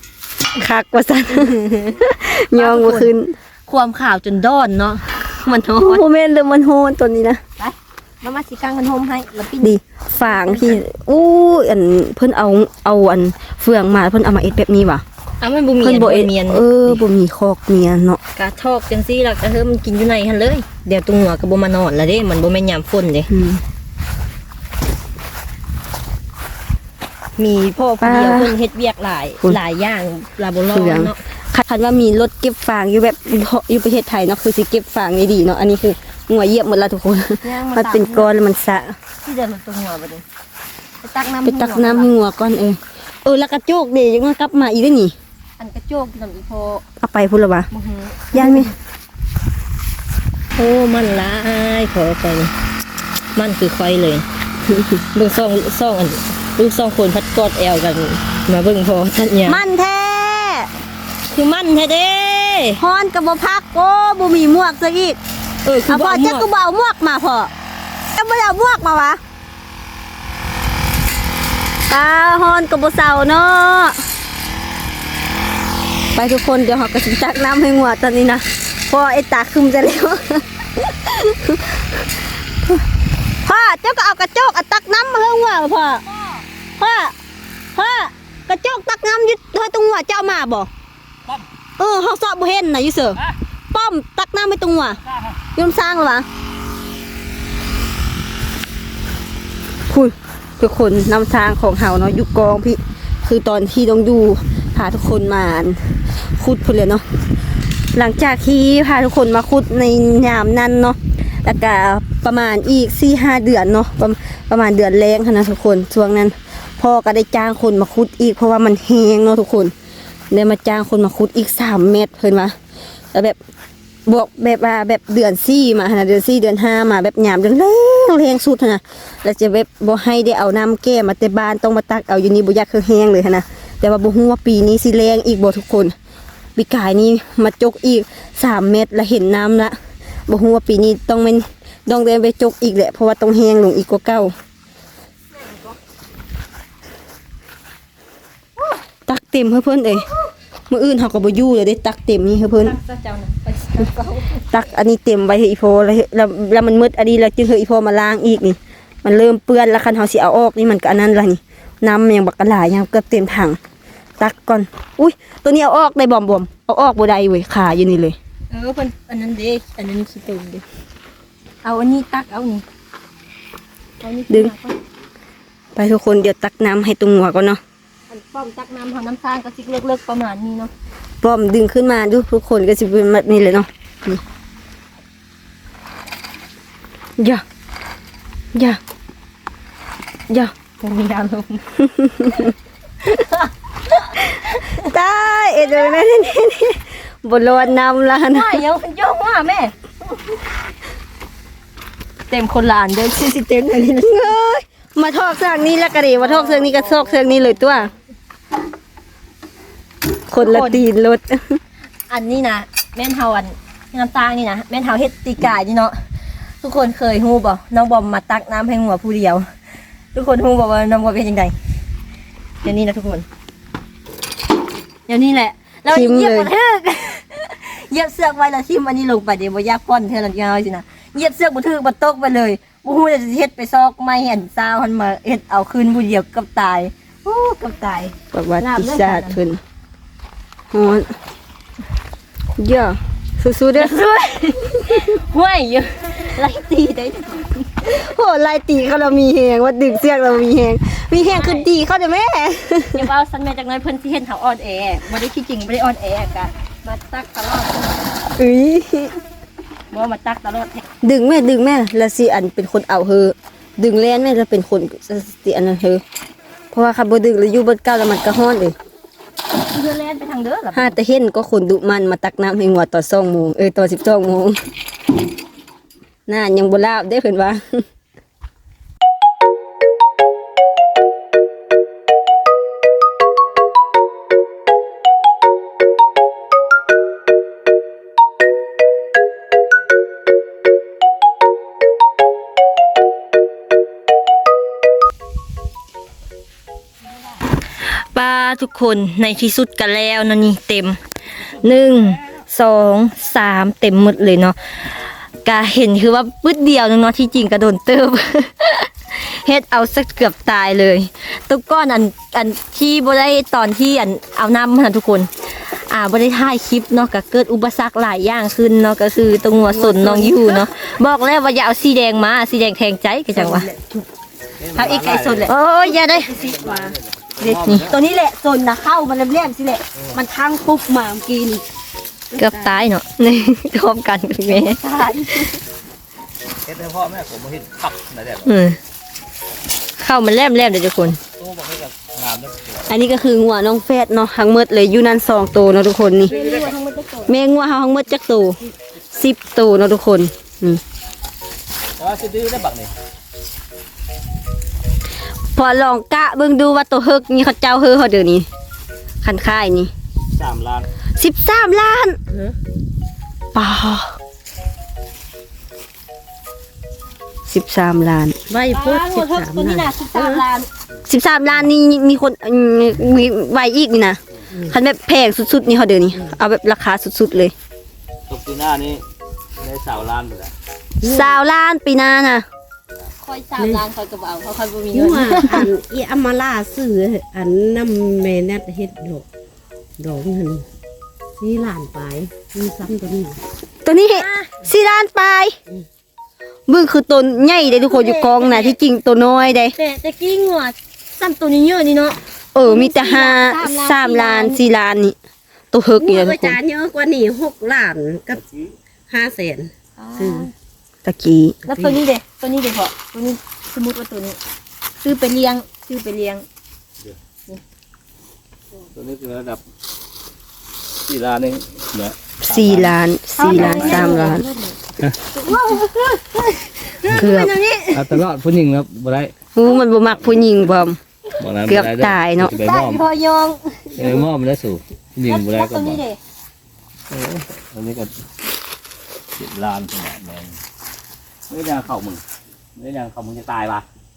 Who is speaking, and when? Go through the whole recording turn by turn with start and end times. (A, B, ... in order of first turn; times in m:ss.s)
0:00.6-0:03.3 A
0:01.3-0:02.0 B
0:02.5-0:03.1 B
0:03.7-0:06.0 B
0:05.7-0:07.4 A
0:07.6-0:10.8 B
0:09.6-0:15.0 A
0:15.4-0:17.0 B
0:15.8-0:18.2 A
0:18.3-0:23.3 B
0:23.3-0:23.6 A
0:27.4-0:31.2 B
0:28.0-0:28.6 A
0:30.7-0:39.0 A
0:37.4-0:38.3 B
0:39.2-0:40.2 B
0:41.0-0:42.1 B
0:41.4-0:45.1 A
0:45.6-0:46.8 B
0:47.0-0:47.7 A
0:47.7-0:48.7 B
0:48.3-0:48.7 A
0:50.6-0:52.5 B
0:53.3-0:54.2 B
0:54.7-0:55.0 A
0:55.1-0:59.6 B
0:59.4-1:00.7 A
1:01.3-1:02.8 B
1:02.8-1:05.2 A
1:05.6-1:06.4 B
1:05.9-1:07.5 A
1:08.1-1:09.2 A
1:11.9-1:14.0 A
1:16.1-1:22.1 A
1:23.4-1:26.0 A
1:26.8-1:27.1 A
1:27.7-1:30.7 A
1:31.8-1:35.0 A
1:35.5-1:36.3 A
1:39.9-1:47.0 A
1:47.9-1:59.7 A
2:00.3-2:02.5 A
2:04.0-2:15.9 A
2:16.6-2:24.3 A
2:25.4-2:25.8 B
2:29.1-2:30.1 A
2:30.7-2:32.8 A
2:32.5-2:34.4 B
2:34.5-2:43.6 A
2:44.2-2:48.2 A
2:48.5-2:50.6 B
2:51.6-2:52.6 B
2:54.0-2:54.8 B
2:55.8-2:57.6 A
2:58.1-3:00.7 B
3:01.2-3:04.2 A
3:08.5-3:08.8 A
3:10.8-3:11.8 B
3:11.8-3:12.5 A
3:12.3-3:14.8 B
3:14.8-3:18.6 A
3:15.6-3:16.0 B
3:18.3-3:19.7 B
3:22.3-3:24.3 B
3:24.0-3:27.9 A
3:26.2-3:27.7 B
3:30.3-3:31.6 A
3:30.4-3:30.8 B
3:32.1-3:36.0 B
3:36.6-3:39.5 B
3:40.1-3:41.5 B
3:42.6-3:43.2 B
3:45.1-3:59.4 B
3:45.9-3:46.5 A
3:58.3-3:59.6 A
4:00.7-4:01.1 A
4:02.5-4:04.0 A
4:03.8-4:07.8 B
4:07.8-4:13.1 A
4:11.2-4:11.7 B
4:12.9-4:17.9 B
4:18.4-4:19.2 A
4:19.9-4:20.8 B
4:21.0-4:26.0 A
4:26.7-4:28.7 A
4:29.6-4:31.0 B
4:30.7-4:34.6 A
4:36.3-4:37.8 A
4:57.8-5:23.7 B
5:19.7-5:20.7 A
5:23.3-5:24.0 A
5:24.6-5:25.5 C
5:24.7-5:26.3 B
5:25.5-5:25.9 A
5:26.0-5:26.9 D
5:26.2-5:28.0 C
5:27.4-5:29.8 A
5:27.6-5:28.0 B
5:30.1-5:31.6 D
5:32.4-5:32.8 D
5:32.4-5:35.5 B
5:36.6-5:38.5 C
5:38.4-5:38.8 B
5:40.0-5:41.2 B
5:41.4-5:42.8 C
5:42.9-5:46.3 A
5:46.3-5:47.3 B
5:46.3-5:46.7 C
5:47.3-5:48.6 A
5:49.1-5:50.8 A
5:52.0-5:52.9 C
5:55.6-5:58.5 A
5:59.2-5:59.9 A
6:00.3-6:00.9 C
6:01.2-6:02.2 A
6:02.3-6:02.6 D
6:03.5-6:04.1 A
6:07.5-6:08.4 A
6:08.5-6:10.4 D
6:08.7-6:10.7 B
6:11.1-6:17.5 A
6:18.3-6:19.0 C
6:19.6-6:20.5 C
6:21.0-6:21.4 D
6:21.0-6:22.4 A
6:23.2-6:25.7 B
6:23.6-6:23.8 D
6:24.9-6:29.2 D
6:30.0-6:30.6 D
6:31.4-6:33.4 D
6:33.8-6:35.6 A
6:34.1-6:34.5 B
6:36.7-6:39.7 A
6:37.7-6:38.8 B
6:39.8-6:44.6 B
6:42.5-6:45.2 A
6:45.7-6:46.6 A
6:46.0-6:48.4 D
6:48.4-6:48.7 C
6:49.1-6:50.5 D
6:50.0-6:50.5 B
6:51.0-6:51.6 A
6:51.6-6:54.4 B
6:51.7-6:52.0 D
6:55.0-6:56.4 B
6:58.9-6:59.6 C
7:01.1-7:04.1 C
7:02.4-7:04.4 A
7:03.4-7:08.2 B
7:07.1-7:07.5 A
7:07.9-7:09.3 C
7:09.5-7:11.0 A
7:11.4-7:13.0 C
7:11.7-7:12.6 A
7:12.5-7:14.2 B
7:14.0-7:16.0 C
7:15.2-7:16.2 B
7:17.1-7:18.1 C
7:19.4-7:20.6 C
7:21.5-7:22.2 C
7:22.8-7:23.8 C